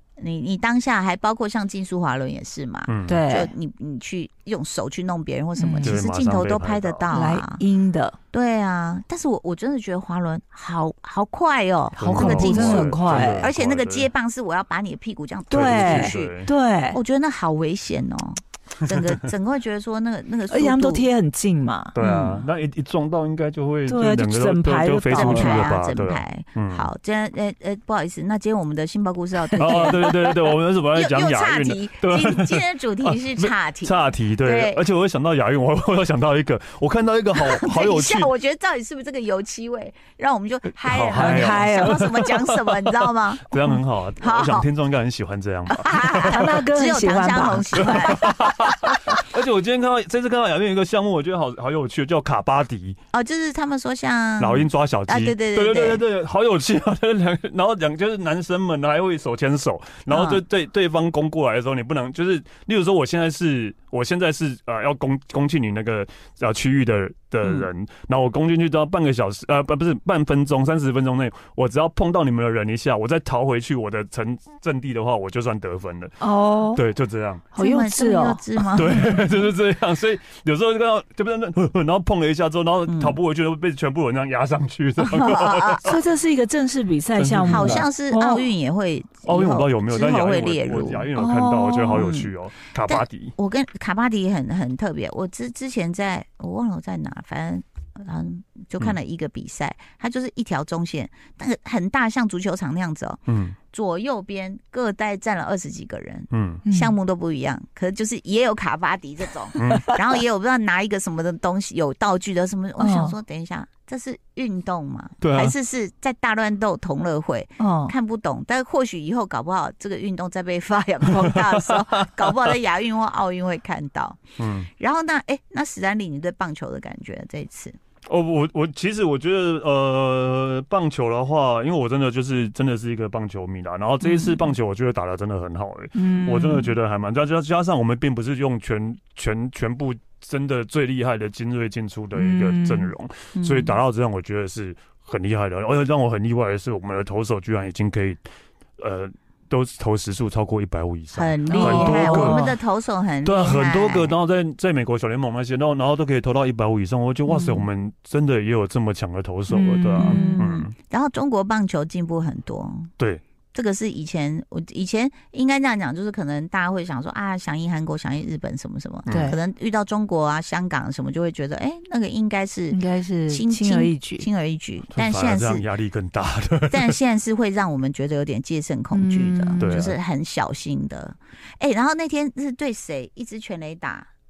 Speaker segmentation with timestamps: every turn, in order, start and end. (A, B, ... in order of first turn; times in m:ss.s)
0:00.2-0:07.6 A
0:02.9-0:03.2 B
0:03.1-0:03.5 C
0:05.6-0:05.9 C
0:05.8-0:07.1 B
0:07.1-0:08.2 C
0:08.3-0:16.4 A
0:12.0-0:14.1 B
0:12.0-0:13.4 C
0:15.5-0:16.5 B
0:15.5-0:17.0 C
0:16.9-0:21.0 A
0:20.5-0:22.0 C
0:21.9-0:26.9 B
0:22.0-0:22.4 A
0:23.9-0:25.7 C
0:25.1-0:30.4 A
0:29.6-0:38.3 B
0:30.9-0:34.8 A
0:37.4-0:43.6 A
0:40.8-0:46.6 B
0:41.1-0:42.2 C
0:44.2-0:44.6 A
0:45.7-0:48.4 A
0:46.1-0:48.3 C
0:47.8-0:53.0 B
0:53.1-0:56.0 A
0:54.4-1:16.1 B
1:00.1-1:00.4 A
1:16.2-1:16.8 C
1:16.7-1:17.5 B
1:17.5-1:18.6 C
1:17.5-1:19.1 A
1:18.7-1:26.0 B
1:22.9-1:23.2 A
1:25.0-1:25.9 A
1:25.8-1:28.5 C
1:27.2-1:27.9 B
1:27.4-1:31.1 A
1:29.2-1:33.3 B
1:31.2-1:32.0 C
1:31.9-1:32.3 A
1:32.8-2:07.8 A
1:43.3-1:43.6 B
1:46.3-1:46.6 B
1:46.6-1:46.9 C
1:49.6-1:49.9 B
1:52.8-1:53.1 C
1:55.2-1:55.5 B
1:57.6-1:57.9 C
2:01.1-2:02.6 B
2:04.4-2:04.7 B
2:08.1-2:28.2 B
2:15.9-2:16.7 C
2:22.2-2:22.9 C
2:23.3-2:23.8 A
2:28.8-2:32.5 B
2:31.1-2:34.1 A
2:31.5-2:32.5 C
2:33.2-2:40.7 B
2:37.3-2:37.6 A
2:39.5-2:40.4 C
2:40.0-2:42.9 A
2:43.5-2:55.6 A
2:49.1-2:49.4 B
2:49.1-2:49.4 C
2:52.7-2:54.3 C
2:54.9-2:57.0 B
2:56.7-3:04.1 A
2:58.9-2:59.8 C
2:59.6-3:00.0 B